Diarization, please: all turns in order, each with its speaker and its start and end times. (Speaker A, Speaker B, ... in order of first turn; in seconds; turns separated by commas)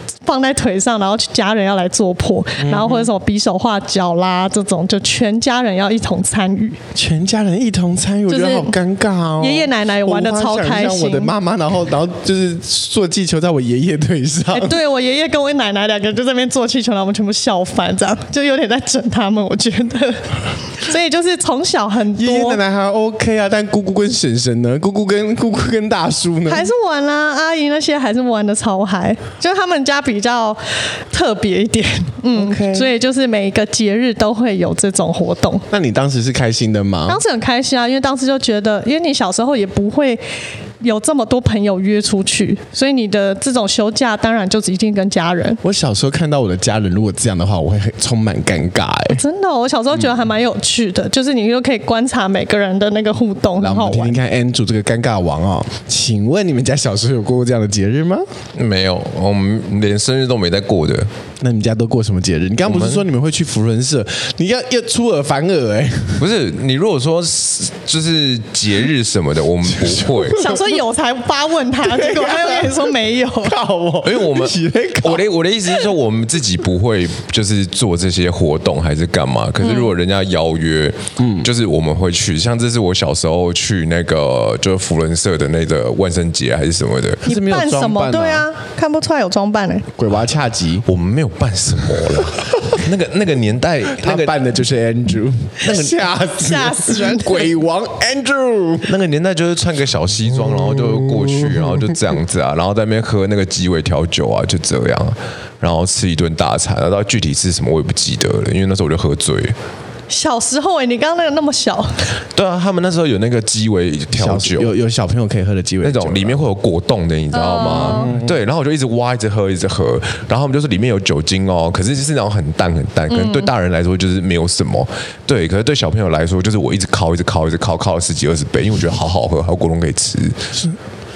Speaker A: 0.2-6.8, Speaker B: 2.6-3.1, Speaker B: 6.9-14.8, Speaker A: 8.3-8.7, Speaker A: 9.4-11.3, Speaker A: 14.5-22.6, Speaker B: 22.1-26.7, Speaker A: 26.5-35.6, Speaker B: 32.3-32.9, Speaker B: 35.7-37.2, Speaker A: 37.1-40.2, Speaker A: 40.8-45.6, Speaker B: 45.6-49.2, Speaker A: 49.1-54.2, Speaker B: 53.6-58.2, Speaker C: 58.5-61.1, Speaker B: 61.4-66.3, Speaker C: 62.6-63.0, Speaker C: 66.2-70.4, Speaker B: 69.8-70.6, Speaker A: 70.3-73.5, Speaker B: 71.8-75.3, Speaker C: 74.0-87.2, Speaker A: 79.6-79.9, Speaker B: 81.2-81.5, Speaker B: 87.2-88.5, Speaker A: 87.2-89.9, Speaker B: 89.9-90.8, Speaker C: 90.8-94.3, Speaker B: 92.0-92.5, Speaker B: 93.9-98.9, Speaker A: 95.6-97.5, Speaker C: 95.7-96.0, Speaker C: 98.8-109.5, Speaker B: 100.3-102.0, Speaker A: 110.1-112.1, Speaker C: 112.3-114.7, Speaker B: 114.1-116.4, Speaker C: 115.8-130.5, Speaker A: 117.3-118.1, Speaker B: 117.7-118.4, Speaker A: 123.1-123.5